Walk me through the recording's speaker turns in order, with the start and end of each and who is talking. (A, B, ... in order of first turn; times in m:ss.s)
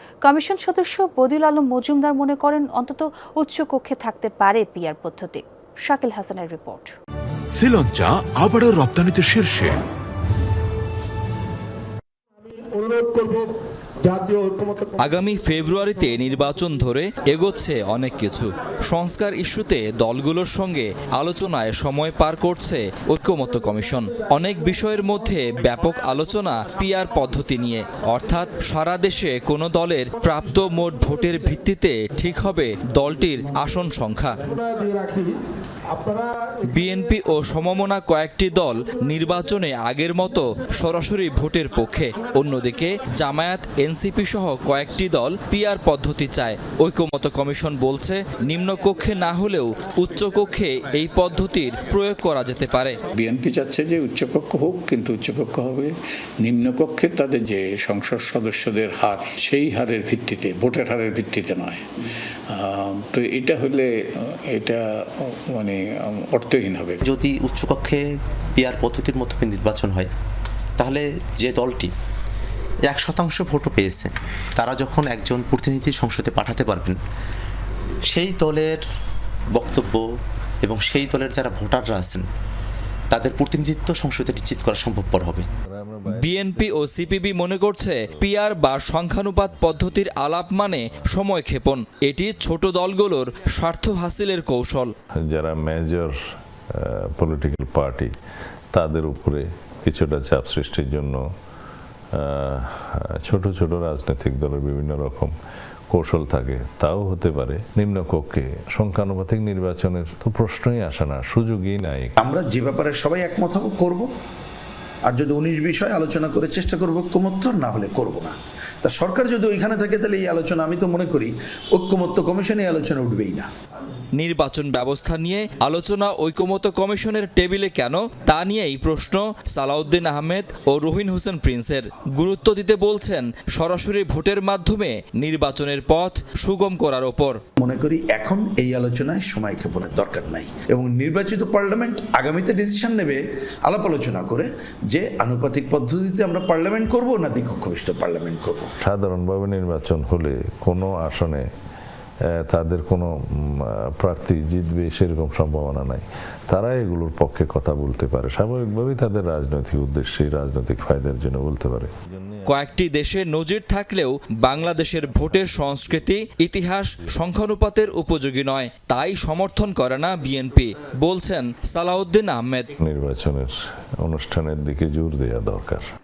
0:00.2-0:06.9 A
0:07.6-0:09.7 B
0:12.4-0:13.5 C
0:14.0-0:15.0 C
0:15.0-0:34.4 D
0:34.5-0:35.4 C
0:35.9-0:36.5 C
0:36.7-0:53.0 D
0:53.2-1:01.9 E
1:02.5-1:07.0 E
1:07.0-1:08.0 F
1:08.6-1:10.1 F
1:10.8-1:11.9 F
1:12.9-1:17.0 F
1:18.1-1:18.8 F
1:19.6-1:20.0 F
1:20.6-1:22.2 F
1:23.1-1:25.5 F
1:25.7-1:27.2 G
1:26.1-1:34.9 D
1:29.6-1:30.1 G
1:35.3-1:36.2 G
1:36.8-1:38.1 G
1:38.7-1:41.2 G
1:42.2-1:45.3 G
1:45.9-1:52.2 G
1:52.2-1:54.1 H
1:55.1-2:03.5 H
2:04.2-2:17.4 D
2:17.6-2:28.7 H
2:28.8-2:31.5 G
2:32.4-2:42.5 G
2:42.5-2:52.7 D
2:52.8-2:55.8 G